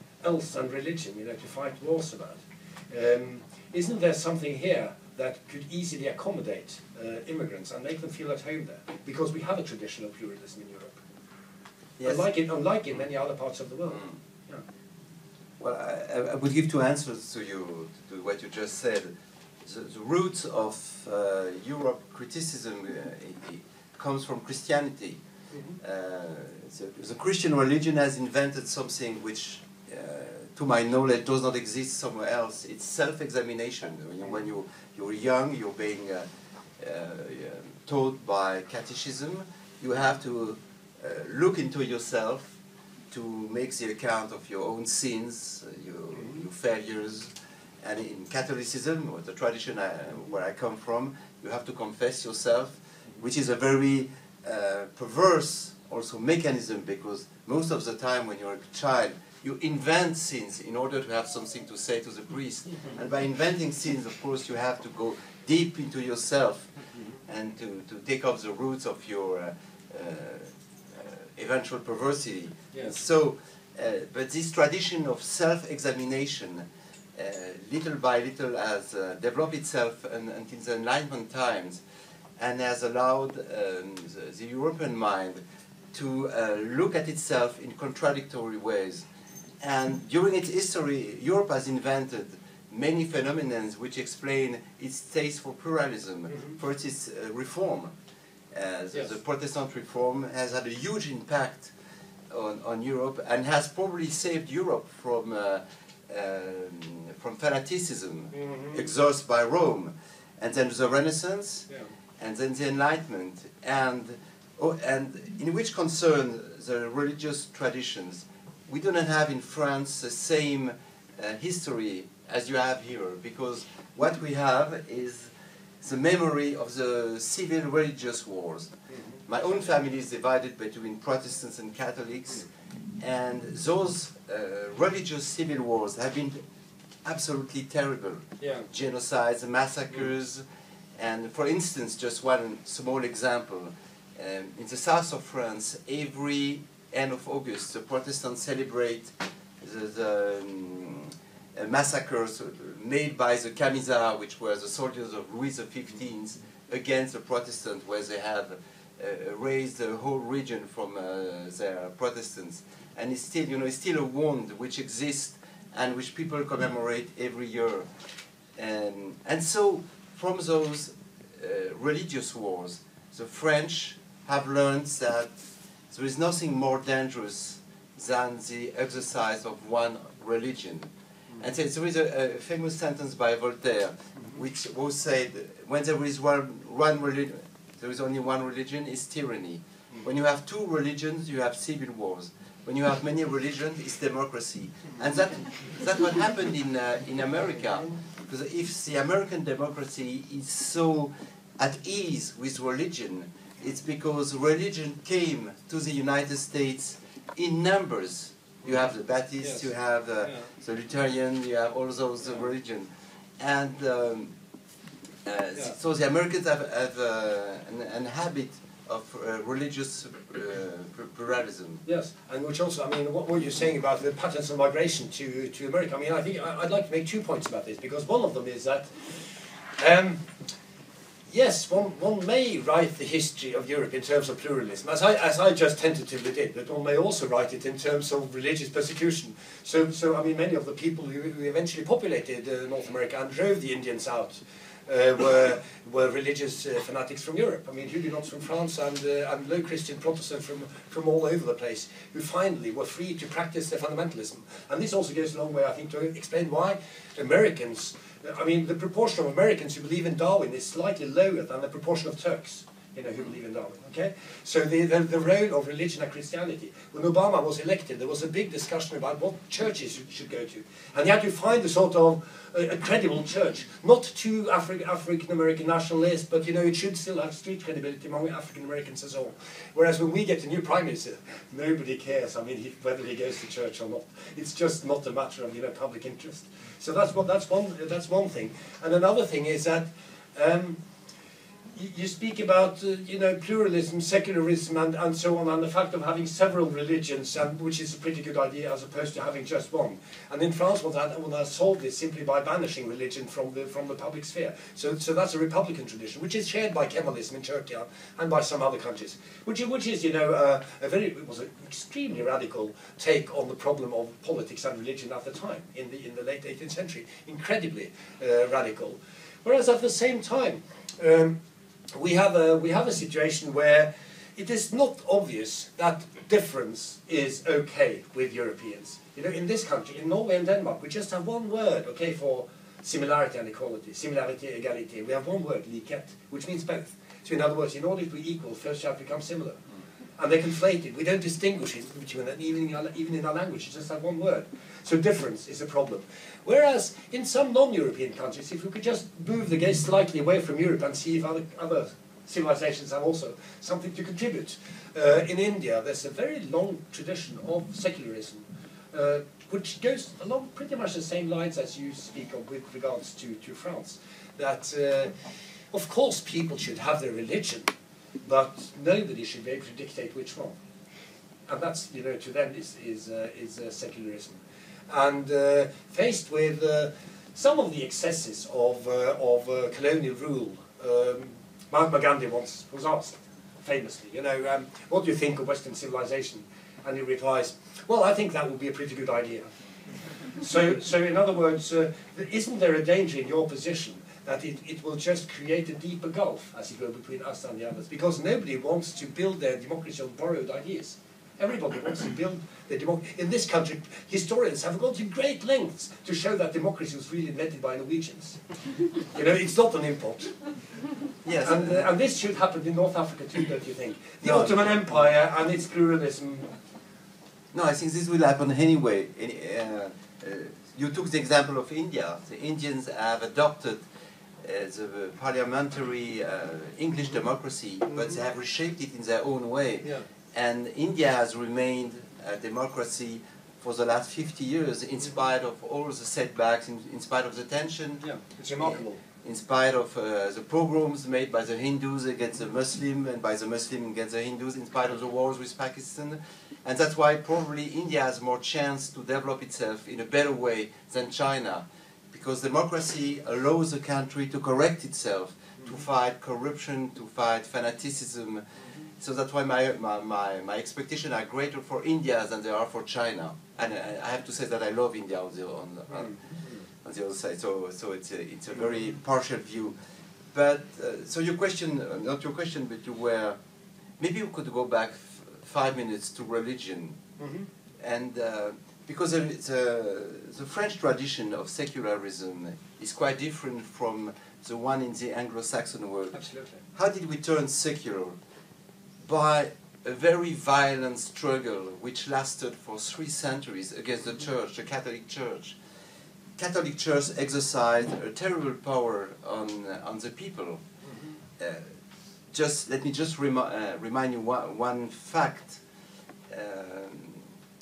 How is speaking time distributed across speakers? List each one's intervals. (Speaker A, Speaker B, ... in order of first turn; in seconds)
Speaker A: 0.2-11.0, 12.0-14.6, 108.3-108.8, 138.4-138.7, 221.8-230.2, 231.3-290.8, 291.7-321.4, 321.9-339.6, 340.2-365.1, 365.7-367.7, 368.2-370.5, 371.5-374.4, 374.9-389.5, 390.4-408.4, 409.0-410.3, 411.4-416.5, 427.9-428.2, 438.0-439.0, 465.9-466.6, 477.2-477.5, 486.1-486.6, 500.8-501.2
Speaker B: 12.0-12.3, 15.6-19.1, 19.6-25.2, 25.8-36.3, 36.8-42.5, 43.1-66.7, 67.3-81.8, 82.4-89.0, 89.6-97.9, 98.5-101.7, 102.3-111.7, 112.2-128.7, 129.3-132.5, 133.0-136.4, 137.0-140.4, 141.0-167.9, 168.6-175.3, 175.9-214.3, 215.2-221.8, 411.2-411.9, 414.2-414.6, 417.5-423.8, 424.4-438.1, 438.6-458.4, 459.0-466.2, 466.8-469.7, 470.3-473.4, 474.0-477.0, 477.8-486.2, 486.7-488.2, 489.0-495.6, 496.4-500.6, 501.4-501.7, 502.3-505.6, 506.3-507.3